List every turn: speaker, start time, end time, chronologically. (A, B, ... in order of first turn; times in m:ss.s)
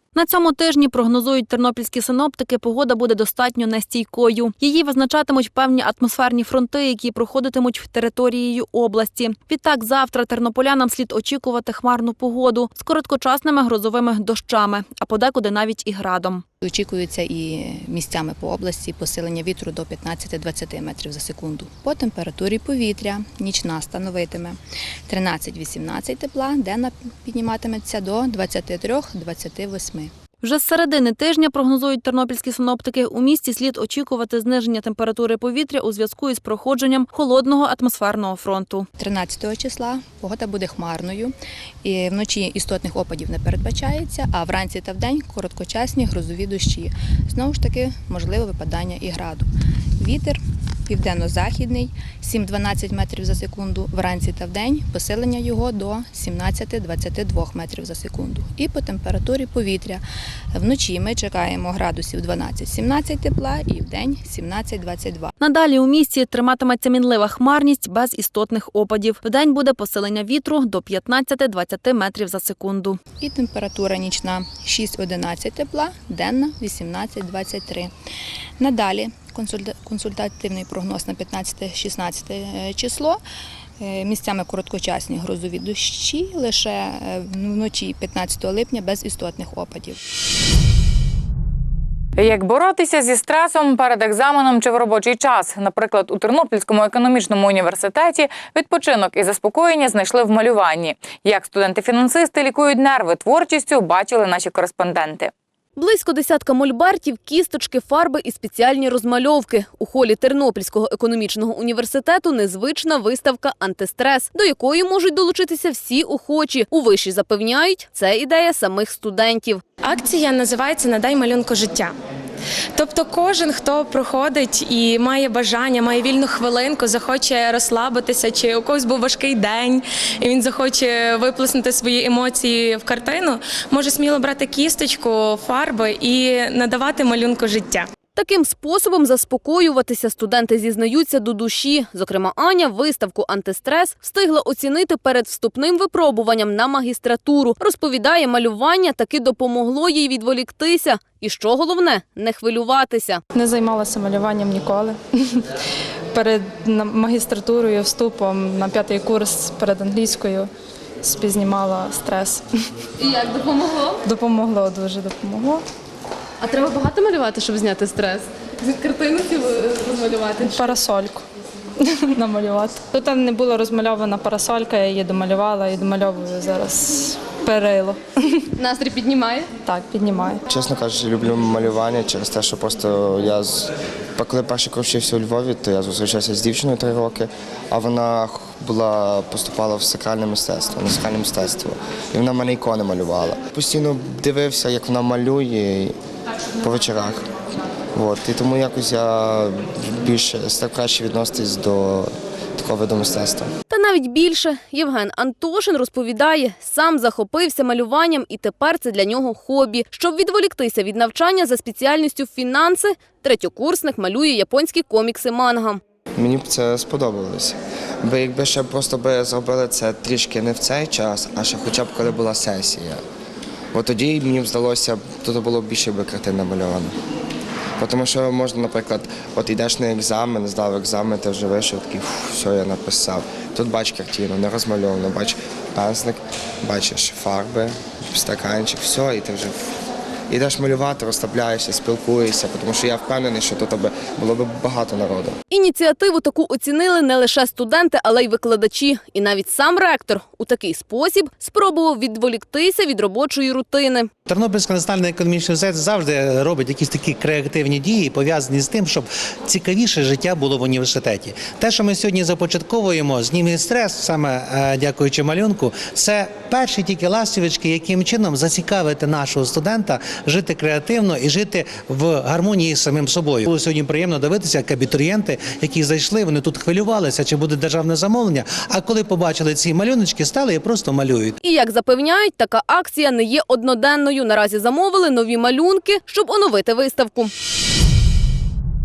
0:00.1-0:16.4 A
0:16.6-0:24.6 B
0:25.1-0:30.1 B
0:30.4-0:38.9 A
0:39.0-0:41.3 B
0:41.8-0:49.5 B
0:50.0-1:00.0 B
1:00.5-1:05.3 B
1:05.4-1:13.0 A
1:13.2-1:17.9 B
1:18.6-1:23.2 B
1:23.8-1:30.0 B
1:32.2-1:45.3 C
1:45.8-1:59.6 D
1:59.8-2:01.9 E
2:02.7-2:17.9 E
2:18.2-2:33.2 D
2:33.3-2:35.4 F
2:36.1-2:40.5 F
2:41.0-2:42.5 F
2:44.0-2:45.6 F
2:47.2-2:48.2 D
2:48.7-2:50.2 D
2:50.4-2:51.2 F
2:51.9-2:58.0 F
2:58.8-2:59.4 D
2:59.6-3:00.4 F
3:00.5-3:16.0 G
3:16.6-3:17.2 G
3:17.9-3:23.5 G
3:23.7-3:35.8 D
3:36.2-3:43.0 G
3:43.7-3:46.9 G
3:47.8-3:59.6 G
4:00.3-4:05.4 G
4:05.5-4:14.1 D
4:14.3-4:41.4 H
4:41.4-4:47.3 D